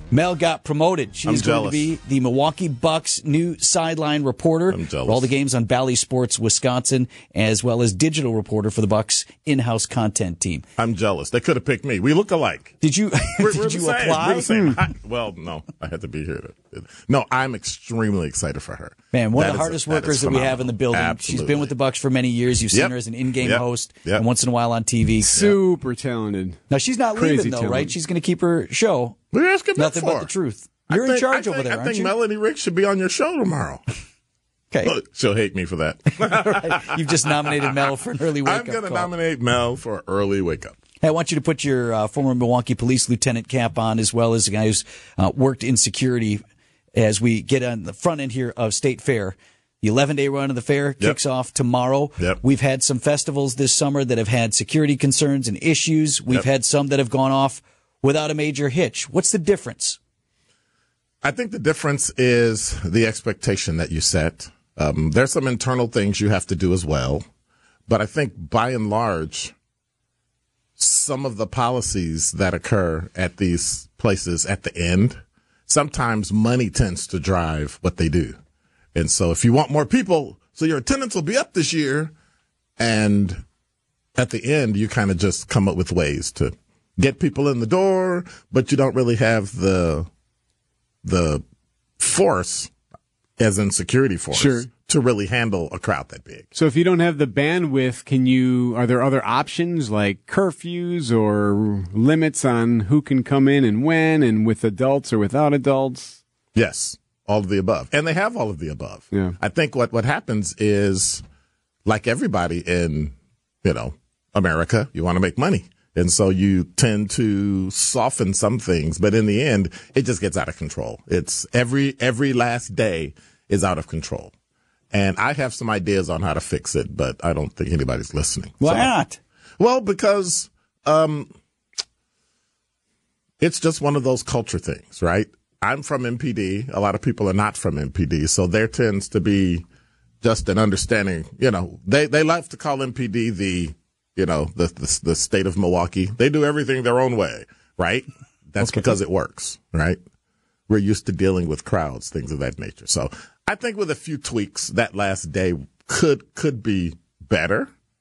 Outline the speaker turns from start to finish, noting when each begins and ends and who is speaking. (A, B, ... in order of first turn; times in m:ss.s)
0:00.1-0:10.6 A
0:01.2-0:01.9 B
0:04.7-0:05.3 B
0:10.8-0:12.7 B
0:12.8-0:14.5 A
0:13.4-0:21.7 B
0:19.1-0:25.6 A
0:22.7-0:24.2 B
0:25.2-0:26.6 C
0:26.7-0:29.2 A
0:27.1-0:27.9 C
0:29.3-0:30.3 B
0:29.8-0:32.1 A
0:30.9-0:33.8 B
0:34.8-0:37.5 B
0:36.2-0:39.1 A
0:38.4-0:40.8 B
0:41.0-0:46.4 A
0:46.9-1:00.0 A
1:01.2-1:07.2 B
1:07.9-1:09.5 B
1:10.8-1:18.4 B
1:18.9-1:22.1 B
1:22.8-1:23.4 B
1:24.2-1:30.1 B
1:31.0-1:31.4 B
1:32.0-1:32.7 B
1:33.4-1:36.5 B
1:34.3-1:34.7 C
1:36.5-1:46.2 C
1:46.5-1:51.2 B
1:51.8-2:04.3 B
2:04.9-2:08.9 B
2:08.6-2:09.2 A
2:09.6-2:11.3 B
2:13.4-2:19.6 B
2:20.2-2:30.0 B
2:28.6-2:28.9 A
2:30.7-2:37.7 B